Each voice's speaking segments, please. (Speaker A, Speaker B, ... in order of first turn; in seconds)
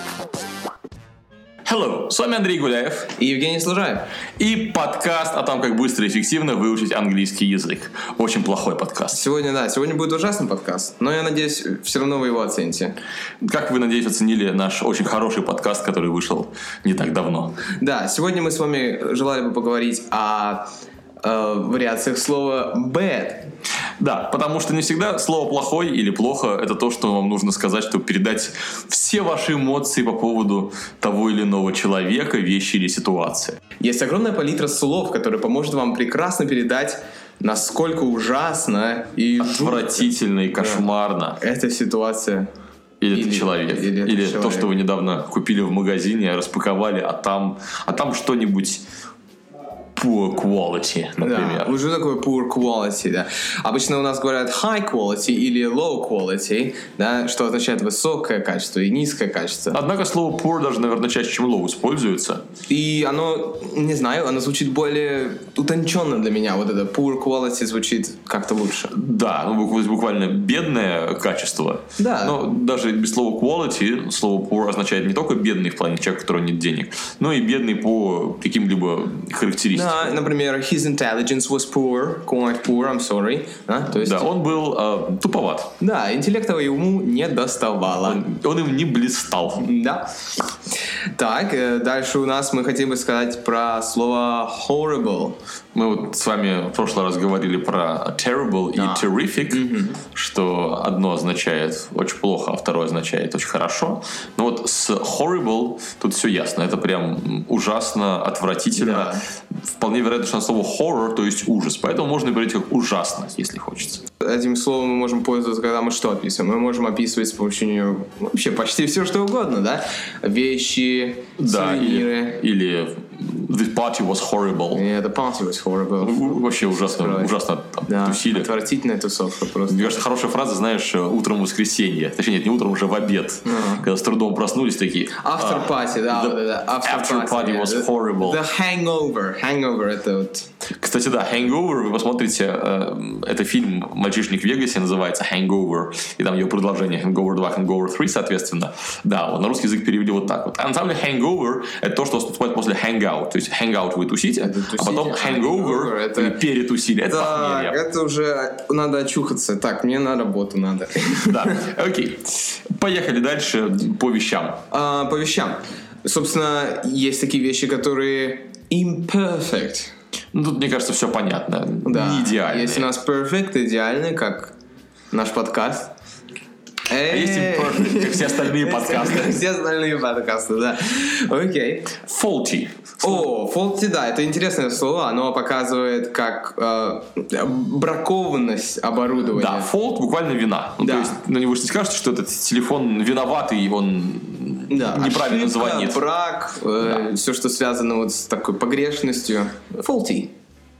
Speaker A: 1.6-3.1, 4.4-9.2, 13.4-17.6, 24.0-33.6, 39.4-41.4, 43.0-48.8, 50.0-51.7, 59.7-62.4, 68.9-80.2, 83.9-85.7, 88.0-89.7, 95.7-109.1, 109.8-114.0, 121.4-124.8, 126.0-128.5, 129.7-138.4, 140.8-157.8, 161.2-164.6, 170.3-172.9, 177.1-179.4, 182.0-183.3, 189.3-196.1
Speaker B: 3.2-4.1, 9.1-12.9, 17.8-20.7, 21.2-23.5, 33.8-40.9, 41.4-42.5, 43.1-44.7, 51.2-59.8, 62.7-68.9, 72.0-72.4, 79.7-84.3, 85.8-88.2, 89.6-90.1, 91.1-95.4, 98.7-100.0, 108.8-109.2, 114.2-122.4, 124.7-127.3, 127.8-130.0, 133.4-133.9, 135.2-140.5, 154.4-156.4, 157.0-161.7, 164.7-169.9, 171.8-174.5, 175.1-175.9, 176.9-182.0, 183.0-189.7, 190.8-191.2, 194.7-200.3